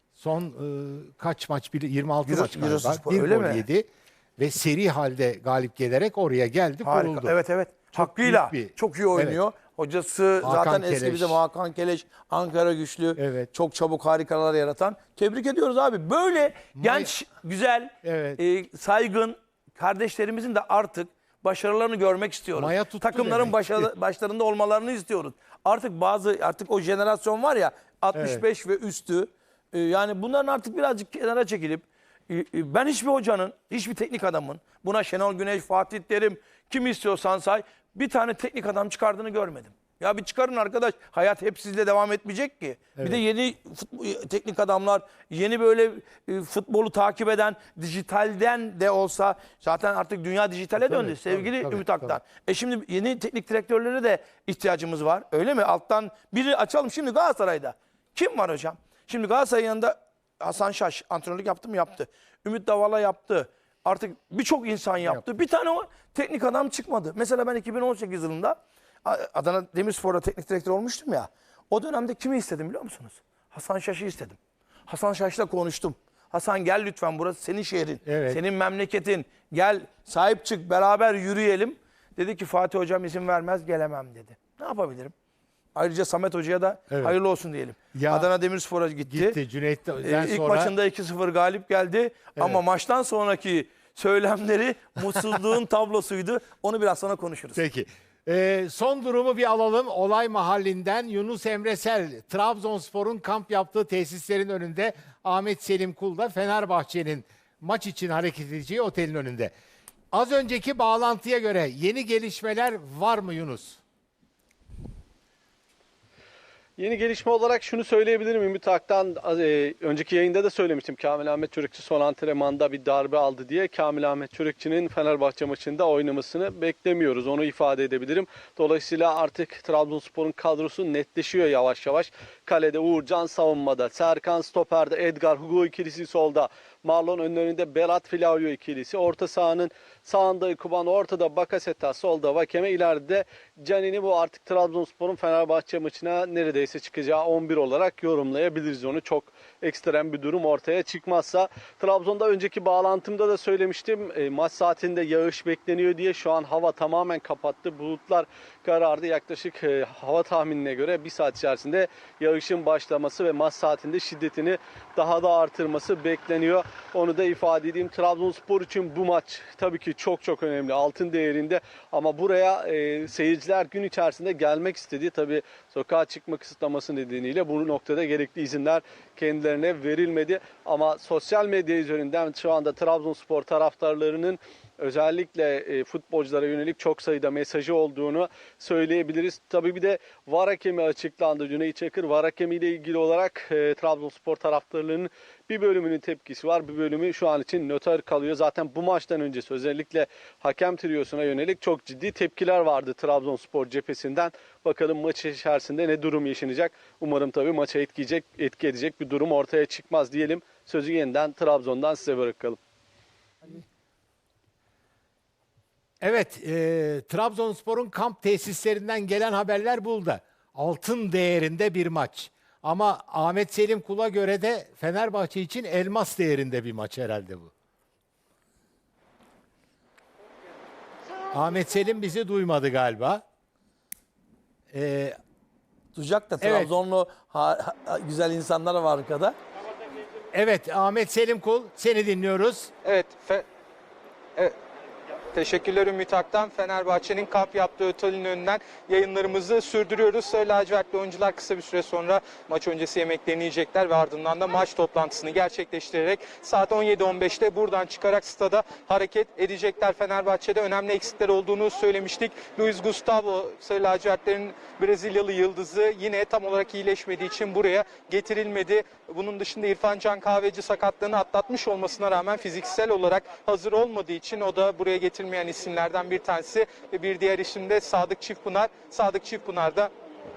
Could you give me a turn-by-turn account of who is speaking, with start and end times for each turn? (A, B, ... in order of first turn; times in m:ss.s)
0:00.2-0:07.3 A
0:02.2-0:03.6 B
0:06.8-1:25.1 B
0:07.9-0:09.4 A
0:10.4-0:11.4 A
0:13.2-0:13.5 A
0:16.8-0:17.1 A
0:18.0-0:18.4 A
0:22.6-0:23.9 A
0:28.1-0:28.4 A
0:43.0-0:43.2 A
0:50.8-0:52.2 A
1:18.0-1:18.4 A
1:25.7-1:29.4 B
1:26.9-1:27.2 A
1:27.9-1:28.3 A
1:29.1-1:30.7 A
1:30.0-1:37.6 B
1:37.6-1:49.5 A
1:50.1-1:53.8 A
1:56.8-3:32.6 C
3:36.0-3:47.5 A
3:51.3-3:53.2 A
3:54.7-3:55.2 A
3:55.9-3:59.4 B
3:56.4-3:56.7 A
4:00.3-4:02.7 A
4:02.8-4:03.4 D
4:05.3-4:39.9 D